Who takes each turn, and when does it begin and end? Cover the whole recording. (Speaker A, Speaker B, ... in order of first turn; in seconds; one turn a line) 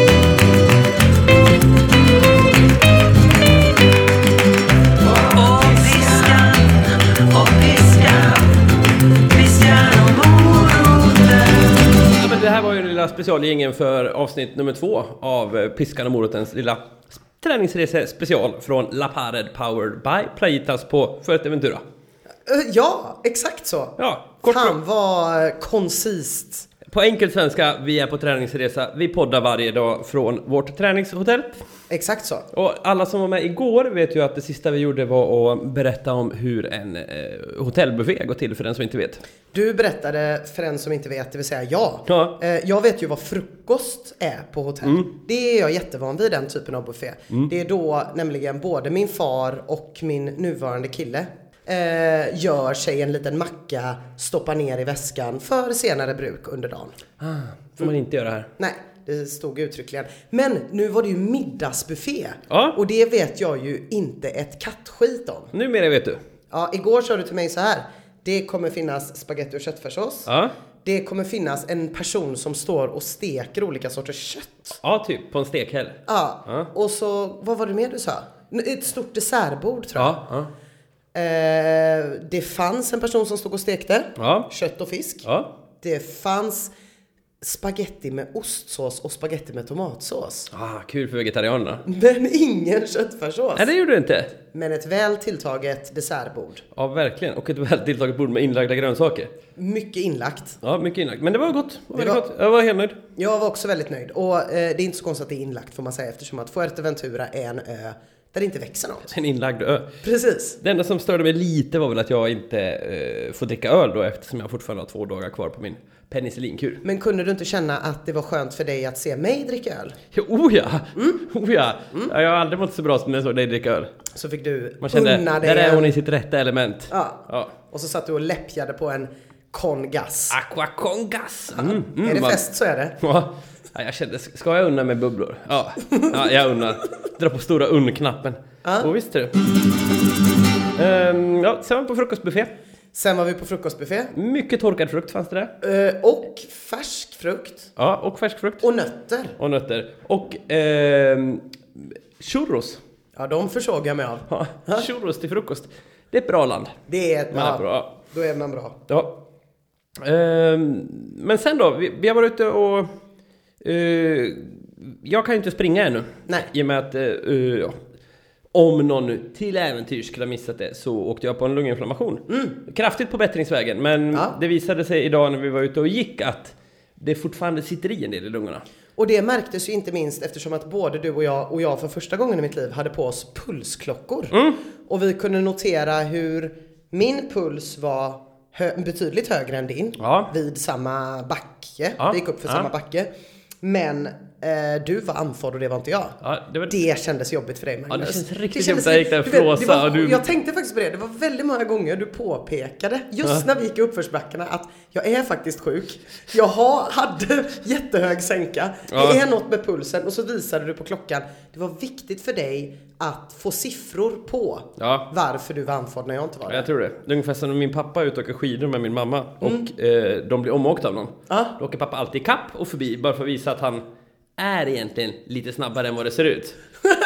Speaker A: 5.1-8.6
Speaker A: 9.3-21.8
Speaker B: 22.4-26.7
Speaker A: 24.0-24.8
Speaker A: 26.9-31.6
Speaker B: 31.9-32.5
Speaker A: 32.5-39.2
Speaker B: 39.5-57.0
Speaker A: 42.1-42.3
Speaker A: 44.8-45.1
Speaker A: 57.2-58.5
Speaker B: 58.6-65.5
Speaker A: 62.5-62.8
Speaker A: 65.5-66.2
Speaker B: 66.5-70.3
Speaker A: 70.2-70.5
Speaker B: 70.8-74.8
Speaker A: 74.8-76.7
Speaker B: 76.1-80.2
Speaker A: 79.9-80.5
Speaker B: 81.1-85.3
Speaker A: 84.2-84.5
Speaker A: 85.2-85.5
Speaker B: 85.8-86.7
Speaker B: 87.4-90.5
Speaker A: 90.5-91.8
Speaker B: 91.8-93.7
Speaker A: 93.5-94.3
Speaker B: 94.5-96.6
Speaker A: 96.7-99.3
Speaker B: 99.5-100.6
Speaker A: 100.6-103.0
Speaker B: 101.9-102.2
Speaker B: 103.2-109.1
Speaker A: 109.1-109.9
Speaker B: 110.0-110.6
Speaker A: 110.6-116.8
Speaker B: 116.8-120.0
Speaker A: 120.1-123.9
Speaker B: 120.9-121.2
Speaker B: 124.1-125.9
Speaker A: 124.8-127.5
Speaker B: 126.9-130.4
Speaker A: 130.3-132.4
Speaker B: 131.5-133.0
Speaker A: 133.0-139.3
Speaker B: 138.6-138.9
Speaker A: 140.8-142.5
Speaker B: 142.9-144.1
Speaker A: 144.1-145.5
Speaker B: 145.6-147.7
Speaker A: 147.8-148.6
Speaker B: 148.6-149.4
Speaker A: 149.4-152.8
Speaker B: 153.1-154.9
Speaker A: 154.3-156.7
Speaker B: 156.9-158.8
Speaker A: 157.3-157.9
Speaker A: 160.0-162.9
Speaker A: 163.6-167.7
Speaker A: 168.5-178.6
Speaker B: 172.3-172.5
Speaker B: 178.9-193.1
Speaker A: 184.3-184.6
Speaker A: 190.0-190.3
Speaker A: 192.0-192.7
Speaker B: 193.6-196.2
Speaker A: 196.2-196.7
Speaker B: 196.7-216.7
Speaker A: 197.9-200.2
Speaker A: 208.9-209.2
Speaker A: 214.8-215.1
Speaker A: 216.5-223.8
Speaker B: 221.3-221.5
Speaker A: 224.4-226.6